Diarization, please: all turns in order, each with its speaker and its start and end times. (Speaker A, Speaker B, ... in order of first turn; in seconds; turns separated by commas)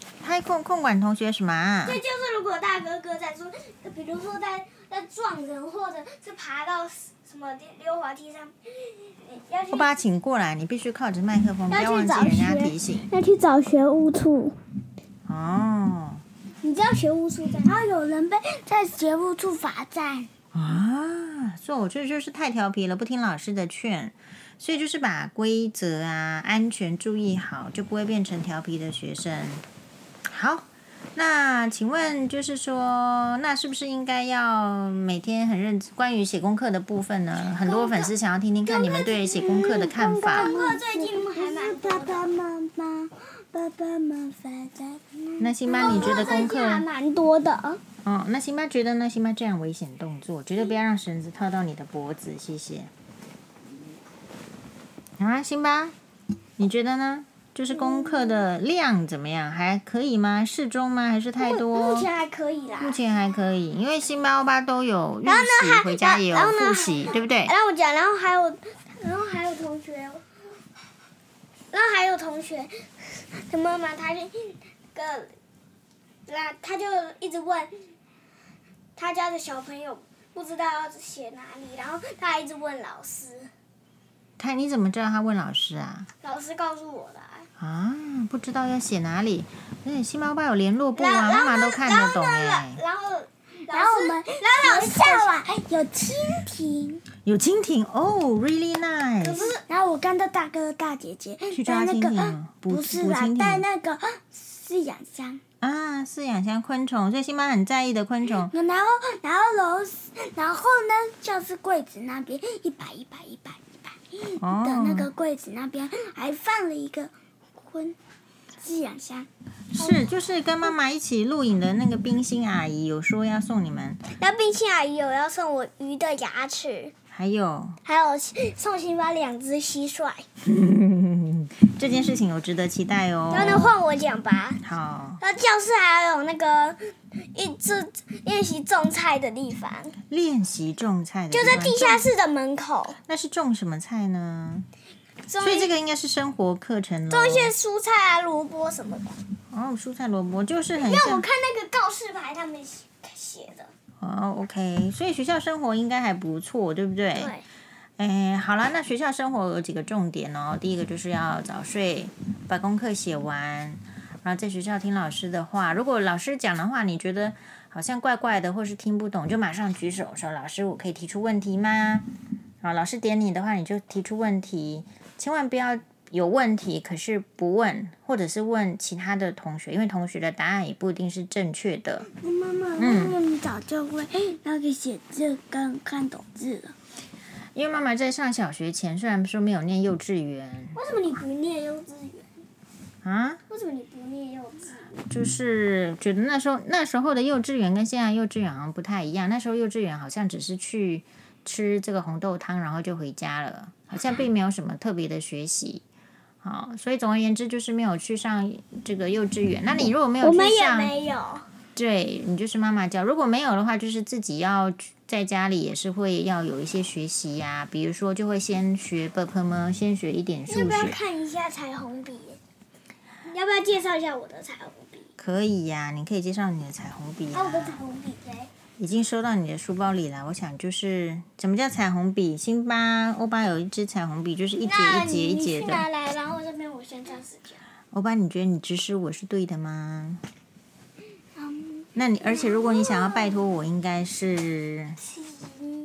Speaker A: 0.2-2.0, Speaker B: 1.8-9.9, Speaker A: 9.7-13.1, Speaker B: 11.7-14.6, Speaker A: 15.3-16.2, Speaker B: 16.6-17.8, Speaker C: 17.6-20.3, Speaker A: 20.5-29.6, Speaker A: 30.3-40.5, Speaker B: 37.6-38.1, Speaker C: 38.6-46.3, Speaker B: 40.2-42.3, Speaker A: 45.4-46.8, Speaker B: 45.6-47.8, Speaker A: 48.0-52.9, Speaker A: 55.2-55.9, Speaker A: 56.6-62.1, Speaker B: 58.0-58.4, Speaker B: 61.4-63.0, Speaker A: 62.8-67.5, Speaker B: 65.2-70.2, Speaker B: 71.7-75.3, Speaker B: 76.2-77.7, Speaker B: 79.0-83.5, Speaker A: 84.4-86.1, Speaker B: 86.2-87.5, Speaker A: 87.6-92.8, Speaker B: 90.9-95.5, Speaker C: 93.7-97.0, Speaker A: 97.2-99.4, Speaker B: 99.2-99.6, Speaker C: 99.4-105.4, Speaker A: 101.5-103.7, Speaker A: 105.6-108.5, Speaker C: 108.3-118.0, Speaker A: 114.4-115.1, Speaker C: 118.6-119.3, Speaker A: 119.7-124.0, Speaker B: 124.1-126.9, Speaker A: 127.1-127.8, Speaker B: 127.8-130.2, Speaker A: 130.4-133.7, Speaker B: 131.8-132.1, Speaker B: 133.3-134.6, Speaker A: 134.6-135.2, Speaker B: 135.2-136.8, Speaker B: 137.3-139.9, Speaker A: 140.1-142.1, Speaker B: 141.3-143.0, Speaker A: 143.1-144.7, Speaker B: 145.2-145.7, Speaker A: 145.4-147.5, Speaker B: 147.1-149.2, Speaker A: 149.5-151.2, Speaker B: 150.8-153.7, Speaker A: 154.0-157.3, Speaker B: 157.1-157.4, Speaker A: 158.0-172.1, Speaker A: 172.6-182.1, Speaker C: 182.1-186.7, Speaker A: 182.8-183.2, Speaker A: 187.5-190.8, Speaker B: 190.7-192.3, Speaker A: 193.0-193.4, Speaker B: 193.5-195.0, Speaker A: 195.1-205.8, Speaker A: 206.4-210.9, Speaker B: 210.2-211.4, Speaker A: 211.7-221.0, Speaker B: 220.5-222.4, Speaker B: 223.2-225.1, Speaker A: 225.2-227.8, Speaker B: 227.3-228.5, Speaker A: 228.8-235.9, Speaker B: 234.6-237.6, Speaker A: 237.9-240.2, Speaker C: 241.3-243.4, Speaker A: 241.9-245.0